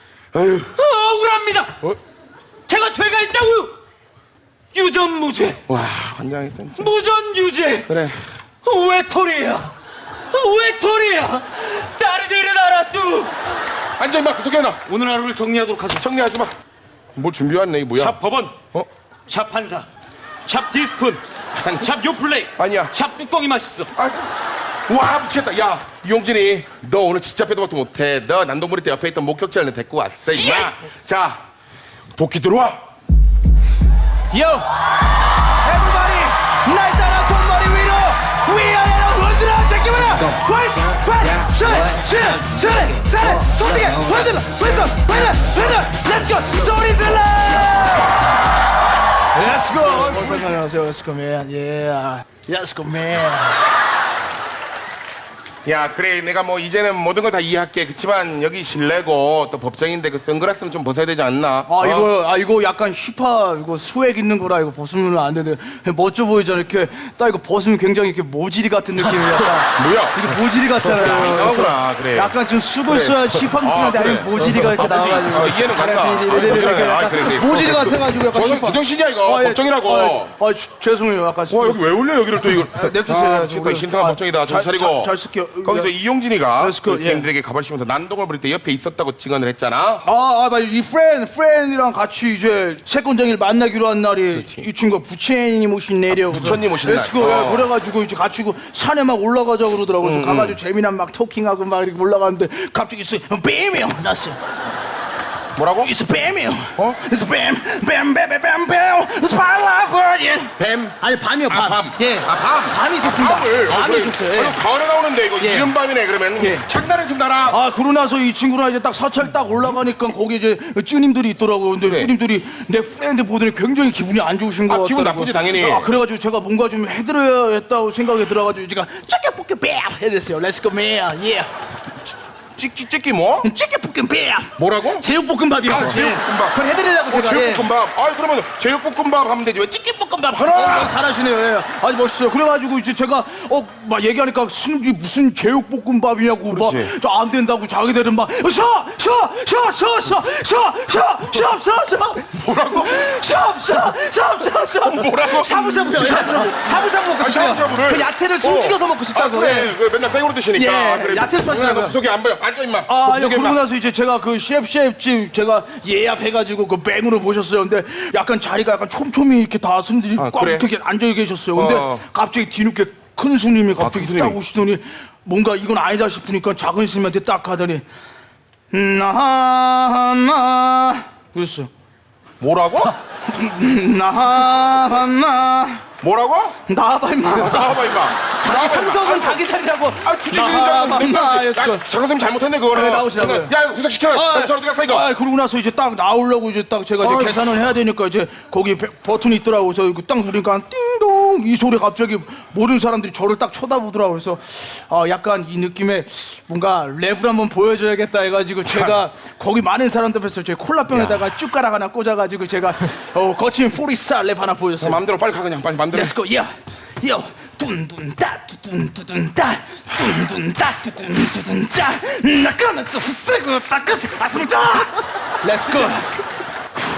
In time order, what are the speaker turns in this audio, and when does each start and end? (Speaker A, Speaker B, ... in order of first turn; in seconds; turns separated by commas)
Speaker A: 0.3-0.7, Speaker B: 0.8-1.8, Speaker B: 2.7-3.7, Speaker B: 4.7-5.6, Speaker A: 5.7-6.9, Speaker B: 6.8-7.9, Speaker A: 7.9-8.2, Speaker B: 8.6-9.7, Speaker B: 10.3-13.3, Speaker A: 14.0-14.8, Speaker B: 14.9-16.1, Speaker A: 16.0-16.5, Speaker A: 17.1-18.2, Speaker B: 17.9-18.6, Speaker B: 19.3-19.9, Speaker B: 20.4-21.2, Speaker A: 21.6-21.9, Speaker B: 21.8-23.9, Speaker A: 22.6-22.9, Speaker A: 23.9-24.3, Speaker A: 24.9-31.4, Speaker C: 30.3-30.7, Speaker A: 32.1-32.8, Speaker C: 34.3-34.7, Speaker C: 35.5-48.2, Speaker C: 49.3-53.6, Speaker A: 55.6-62.1, Speaker C: 61.7-81.8, Speaker A: 69.8-70.3, Speaker A: 70.8-72.3, Speaker A: 72.8-80.3, Speaker A: 81.5-85.1, Speaker C: 82.7-85.9, Speaker A: 85.6-90.0, Speaker C: 86.6-87.3, Speaker C: 90.0-104.4, Speaker A: 94.3-94.7, Speaker A: 96.1-97.7, Speaker A: 100.0-100.6, Speaker A: 105.5-105.9, Speaker C: 105.8-114.6, Speaker A: 110.6-117.6, Speaker C: 115.4-115.7, Speaker C: 116.4-116.6, Speaker C: 117.5-131.5, Speaker A: 121.8-122.1, Speaker A: 124.7-125.9, Speaker A: 132.6-133.5, Speaker C: 133.4-137.7, Speaker A: 134.6-135.1, Speaker A: 135.6-140.9, Speaker C: 140.5-159.7, Speaker A: 146.5-146.9, Speaker A: 152.3-153.2, Speaker A: 154.8-163.6, Speaker C: 160.5-162.0, Speaker C: 162.8-177.8, Speaker A: 170.2-170.7, Speaker A: 171.5-172.0, Speaker A: 173.8-174.4, Speaker C: 178.7-181.7, Speaker A: 182.4-182.9, Speaker C: 183.2-185.8, Speaker A: 186.0-186.5, Speaker C: 186.7-191.8, Speaker A: 187.3-189.4, Speaker A: 190.0-195.1, Speaker C: 192.7-193.5, Speaker C: 194.1-215.0, Speaker A: 197.0-197.6, Speaker A: 210.9-211.2, Speaker A: 214.8-216.1, Speaker C: 215.9-226.1